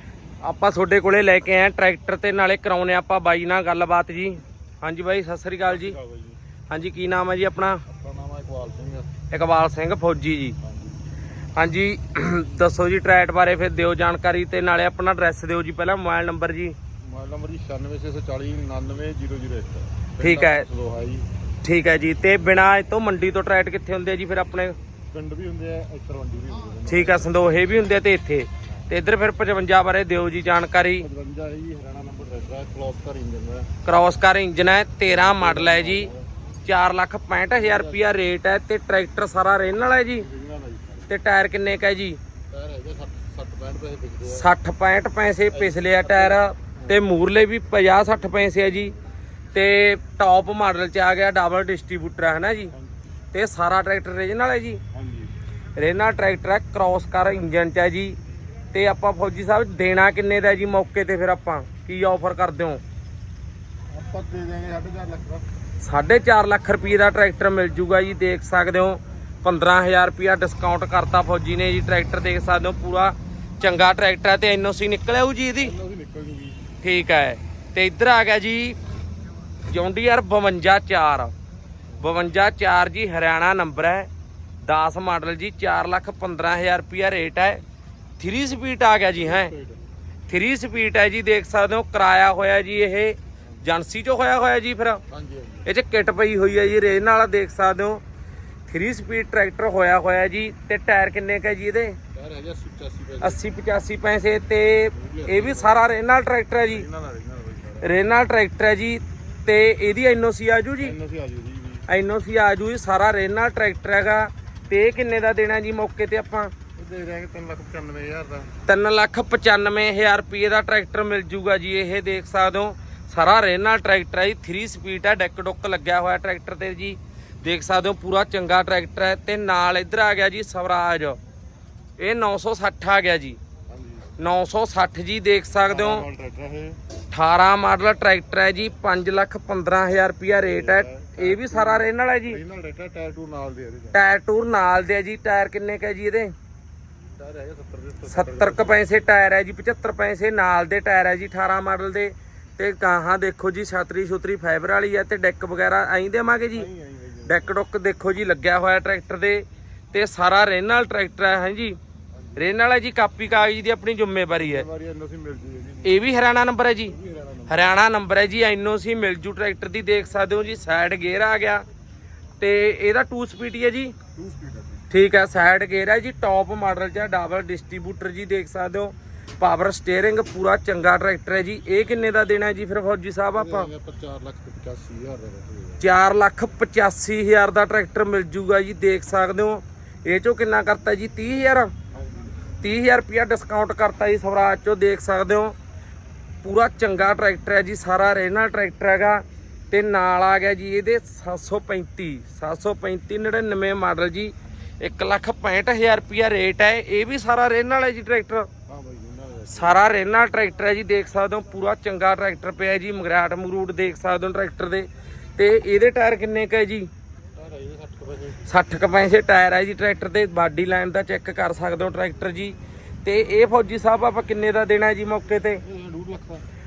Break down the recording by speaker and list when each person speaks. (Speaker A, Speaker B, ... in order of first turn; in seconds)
Speaker A: 0.4-6.0, 6.7-7.8, 9.3-10.6, 11.6-16.8, 20.2-20.6, 21.6-24.8, 26.9-31.1, 33.8-36.1, 36.6-40.2, 41.1-42.2, 44.3-48.9, 49.5-52.7, 53.3-54.8, 55.8-58.2, 58.7-62.8, 65.8-75.8, 76.8-78.8, 79.7-81.3, 82.0-84.1, 84.6-87.6, 88.2-89.5, 90.3-95.0, 95.7-98.0, 98.7-102.0, 103.2-106.9, 107.8-111.0, 111.9-116.5, 118.7-131.2, 132.0-133.4, 134.2-136.1, 137.1-142.4, 143.9-146.3, 148.1-156.7, 157.2-161.8, 162.4-164.7, 165.8-167.0, 167.5-171.7, 172.4-173.9, 174.9-183.7, 185.8-191.7, 192.6-195.6, 196.4-208.5, 209.5-216.9, 218.5-225.6
Speaker B: 5.7-6.4, 7.8-9.1, 10.6-11.1, 17.0-21.3, 25.1-27.5, 31.0-33.7, 35.0-36.3, 37.5-38.1, 40.1-41.1, 42.5-44.5, 45.5-47.0, 54.9-55.3, 63.9-65.5, 75.6-76.6, 89.1-89.8, 95.1-95.7, 102.1-103.4, 104.9-105.8, 106.7-108.1, 110.8-111.9, 116.8-118.5, 133.7-134.2, 135.7-136.8, 140.5-144.0, 147.2-148.9, 156.5-157.6, 162.1-162.5, 164.4-166.0, 166.9-167.8, 174.2-174.9, 183.3-185.8, 191.9-192.3, 208.7-209.8, 217.3-218.4, 225.6-226.4